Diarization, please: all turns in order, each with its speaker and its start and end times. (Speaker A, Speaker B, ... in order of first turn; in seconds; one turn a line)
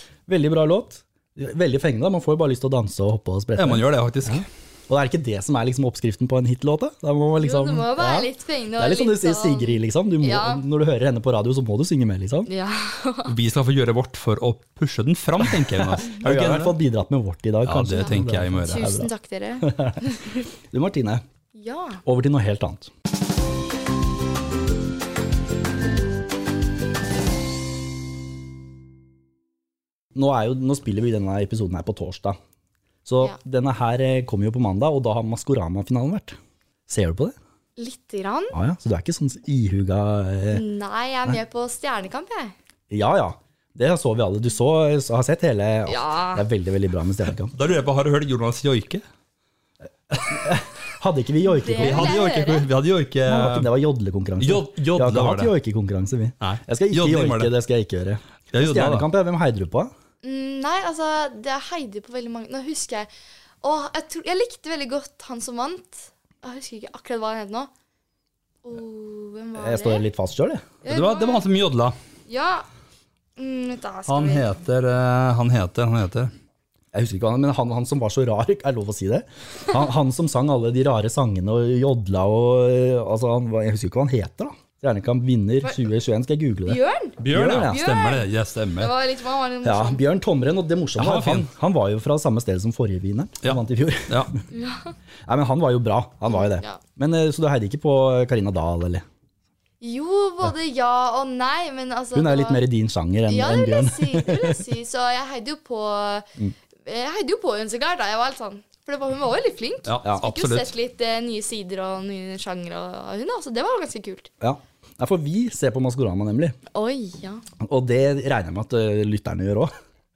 Speaker A: 0.3-12.5
Speaker B: 3.6-4.5
Speaker C: 7.4-10.6
Speaker C: 12.5-13.3
Speaker B: 13.2-16.8
Speaker A: 15.4-19.1
Speaker B: 17.6-18.9
Speaker C: 18.6-20.4
Speaker A: 19.6-20.0
Speaker A: 20.7-21.2
Speaker C: 21.5-22.0
Speaker A: 22.0-22.9
Speaker A: 30.1-32.4
Speaker A: 33.0-36.4
Speaker A: 36.9-37.4
Speaker C: 37.8-38.5
Speaker A: 38.5-40.6
Speaker C: 40.5-42.5
Speaker A: 42.9-47.5
Speaker C: 45.9-46.4
Speaker B: 47.5-49.0
Speaker A: 50.1-52.2
Speaker C: 51.4-52.7
Speaker B: 51.8-53.7
Speaker A: 53.3-59.9
Speaker B: 54.4-55.5
Speaker B: 56.4-57.5
Speaker B: 58.5-59.1
Speaker C: 60.2-63.1
Speaker C: 63.6-67.7
Speaker C: 68.6-70.0
Speaker A: 69.6-70.7
Speaker C: 70.8-71.4
Speaker B: 70.9-72.0
Speaker C: 72.3-72.7
Speaker C: 73.4-74.5
Speaker B: 74.1-76.3
Speaker A: 76.9-87.8
Speaker C: 86.7-90.0
Speaker B: 87.2-88.9
Speaker A: 89.6-94.4
Speaker B: 91.0-91.5
Speaker B: 93.4-94.3
Speaker C: 94.5-94.9
Speaker A: 95.2-99.0
Speaker C: 96.3-96.8
Speaker C: 99.8-102.6
Speaker A: 102.1-104.6
Speaker C: 103.3-106.3
Speaker C: 106.8-114.3
Speaker B: 109.8-110.7
Speaker A: 114.4-116.6
Speaker C: 116.7-117.4
Speaker A: 117.6-119.7